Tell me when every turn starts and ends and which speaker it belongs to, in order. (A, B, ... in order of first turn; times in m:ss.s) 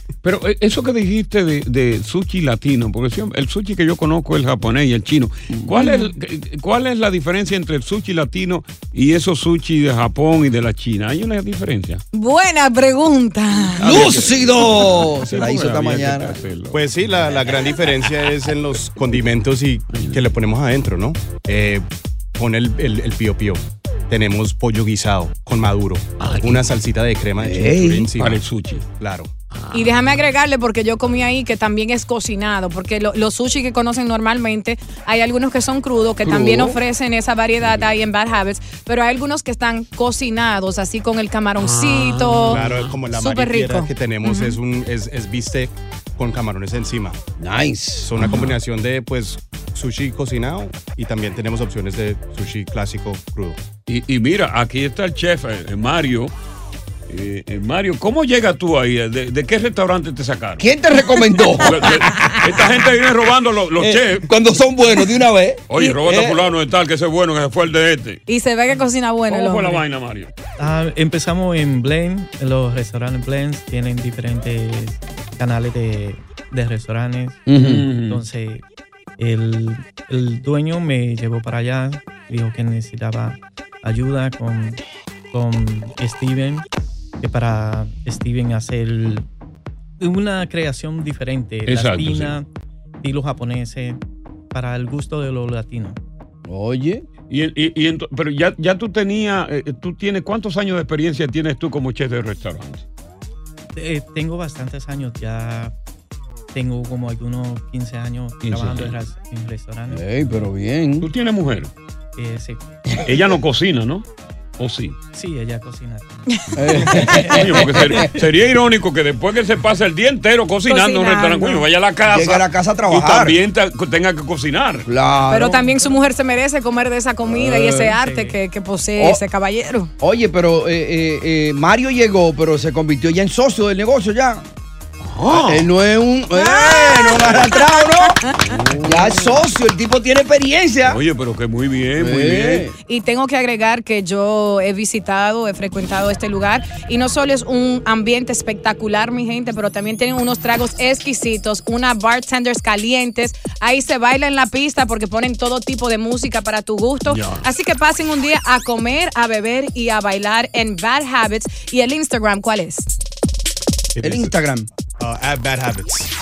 0:00.2-0:12.0 A
0:05.8-0:06.1 B
0:12.1-0:13.9 B
0:13.7-0:16.9 A
0:13.8-0:16.4 C
0:16.7-0:28.4 D
0:27.4-0:28.1 C
0:28.2-0:28.8 A
0:29.0-0:29.3 D
0:29.5-0:30.1 A
0:29.7-0:44.6 B
0:36.2-0:36.8 C
0:41.6-0:43.0 A
0:42.5-0:47.2 D
0:47.4-0:48.1 C
0:48.0-0:53.6 D
0:53.9-0:56.3 A
0:57.1-1:00.7 A
1:00.6-1:02.1 C
1:01.6-1:04.3 A
1:03.8-1:06.4 C
1:05.7-1:08.2 A
1:08.3-1:09.8 B
1:09.3-1:10.3 A
1:10.6-1:17.5 E
1:17.5-1:17.9 C
1:17.6-1:18.2 A
1:18.0-1:18.6 E
1:19.2-1:24.8 E
1:25.3-1:26.6 E
1:27.2-1:29.3 E
1:30.0-1:32.5 E
1:31.7-1:32.4 A
1:33.0-1:34.0 E
1:34.5-1:36.0 E
1:36.4-1:37.0 C
1:37.3-1:42.8 A
1:43.7-1:45.7 E
1:46.5-1:50.4 E
1:48.4-1:49.0 A
1:49.9-1:51.1 C
1:51.0-1:51.7 A
1:52.2-1:52.7 E
1:52.9-1:53.1 C
1:53.0-1:54.0 A
1:54.6-1:55.0 A
1:55.1-1:58.1 E
1:56.5-1:58.1 C
1:56.7-2:04.9 A
2:00.7-2:01.7 B
2:02.1-2:03.4 C
2:04.8-2:05.7 C
2:05.3-2:09.9 B
2:07.4-2:07.9 C
2:07.5-2:08.4 E
2:09.0-2:09.2 C
2:10.0-2:14.4 C
2:15.0-2:15.7 A
2:15.2-2:18.2 C
2:16.3-2:18.3 B
2:18.4-2:19.3 A
2:18.8-2:21.0 C
2:20.8-2:22.7 A
2:22.0-2:22.8 C
2:22.8-2:42.9 B
2:37.1-2:37.4 A
2:43.9-2:44.4 D
2:44.0-2:44.7 C
2:45.0-2:46.1 D